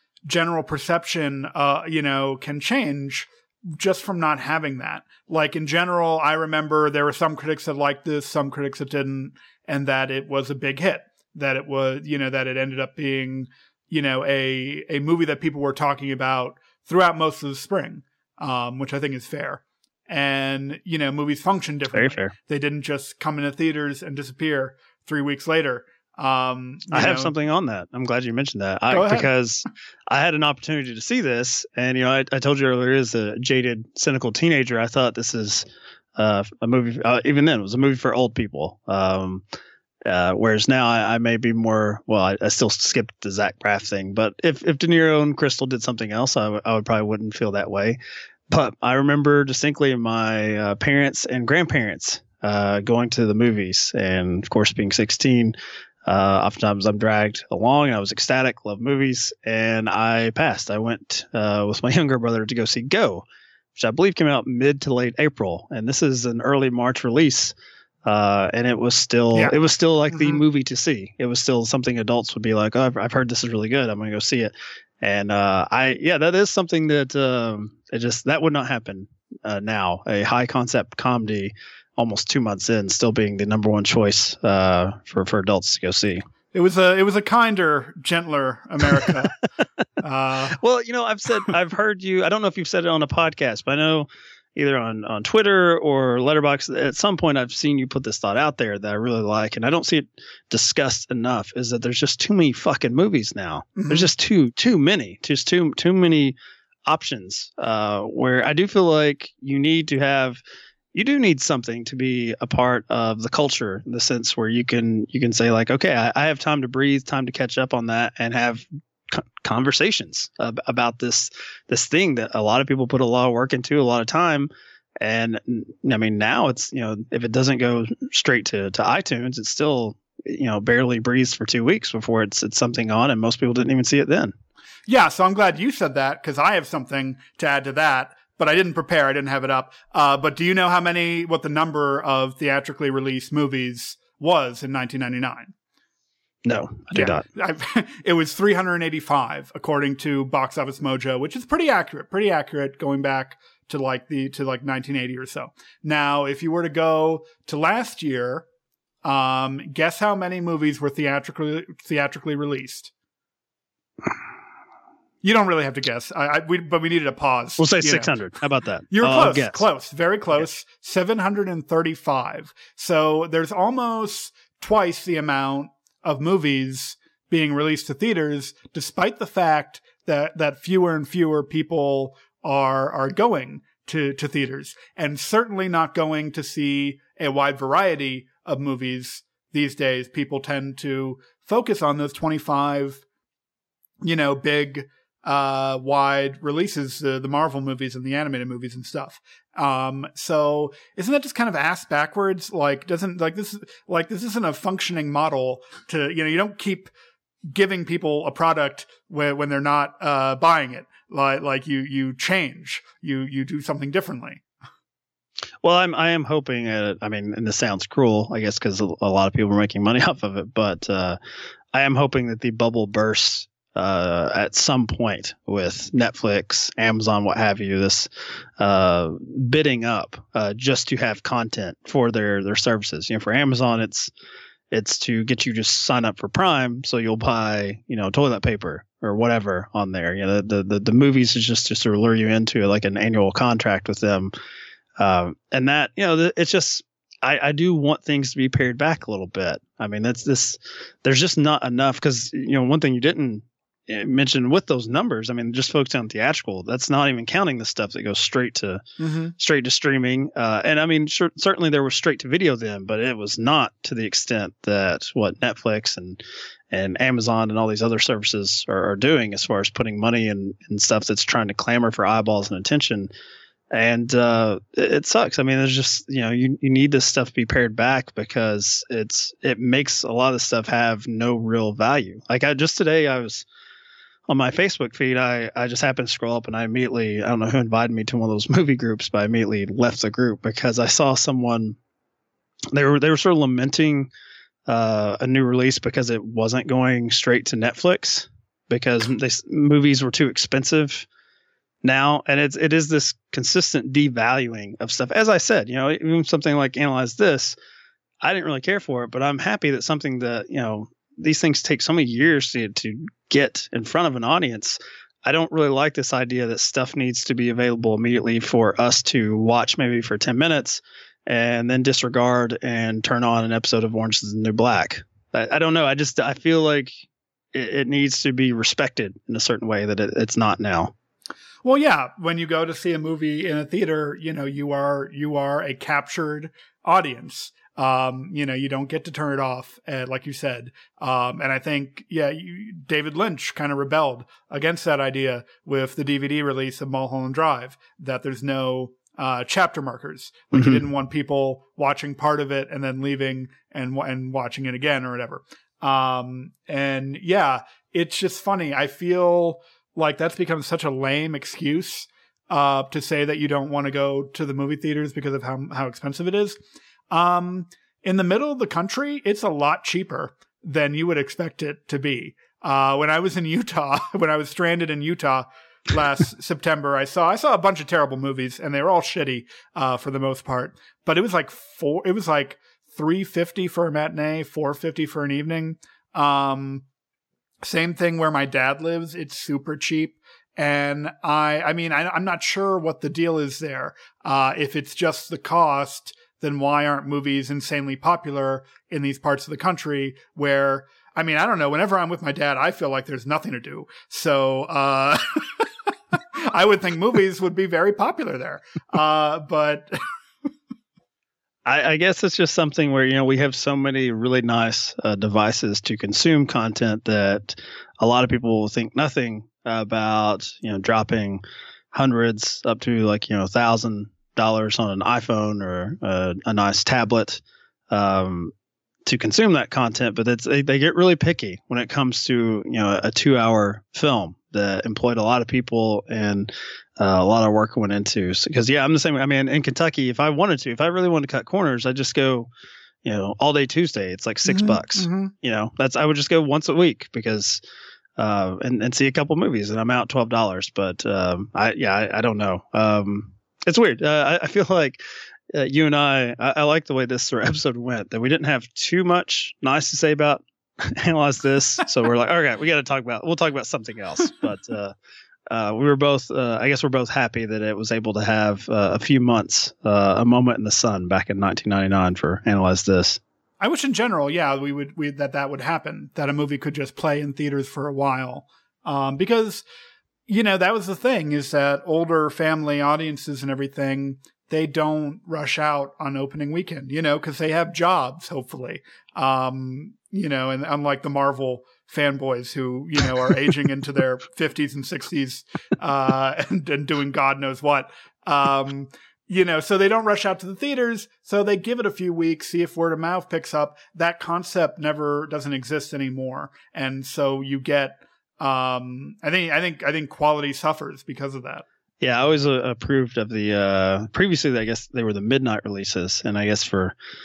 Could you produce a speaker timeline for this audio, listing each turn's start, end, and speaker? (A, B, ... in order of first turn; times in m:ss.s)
0:00.3-0:27.3 A
0:21.9-0:22.3 B
0:26.9-0:39.4 B
0:28.9-0:29.3 A
0:40.0-1:07.5 B
1:08.0-1:26.2 B
1:10.1-1:10.4 A
1:26.5-1:29.3 A
1:30.0-1:30.6 A
1:30.6-1:50.4 B
1:43.8-1:44.1 A
1:50.9-2:14.3 B
2:14.9-2:25.5 A
2:26.4-2:27.2 B
2:26.9-2:38.4 A
2:39.0-2:42.9 A
2:45.2-2:48.2 A
2:47.6-2:49.6 B
2:48.9-3:13.0 A
3:14.0-3:26.9 A
3:27.4-3:34.4 A
3:35.6-3:41.2 B
3:41.7-3:54.1 B
3:54.7-4:04.3 B
4:05.0-4:18.8 B
4:19.0-4:19.3 A
4:19.4-4:33.1 B
4:33.7-4:43.4 B
4:44.3-4:51.8 B
4:52.7-4:54.1 B
4:54.7-5:01.1 B
5:01.8-5:07.6 B
5:08.2-5:26.9 B
5:27.5-5:30.9 B
5:31.6-6:06.6 A
5:50.5-5:50.9 B
6:07.1-6:26.8 A
6:27.6-6:45.6 A
6:46.2-6:49.9 A
6:51.6-7:01.4 B
7:01.9-7:08.5 B
7:09.0-7:22.5 B
7:23.0-7:27.6 B
7:24.4-7:25.3 A
7:28.2-7:35.0 B
7:35.5-7:44.9 B
7:45.5-7:53.2 B
7:53.6-7:59.6 A
8:00.3-8:31.6 A
8:32.0-8:36.9 B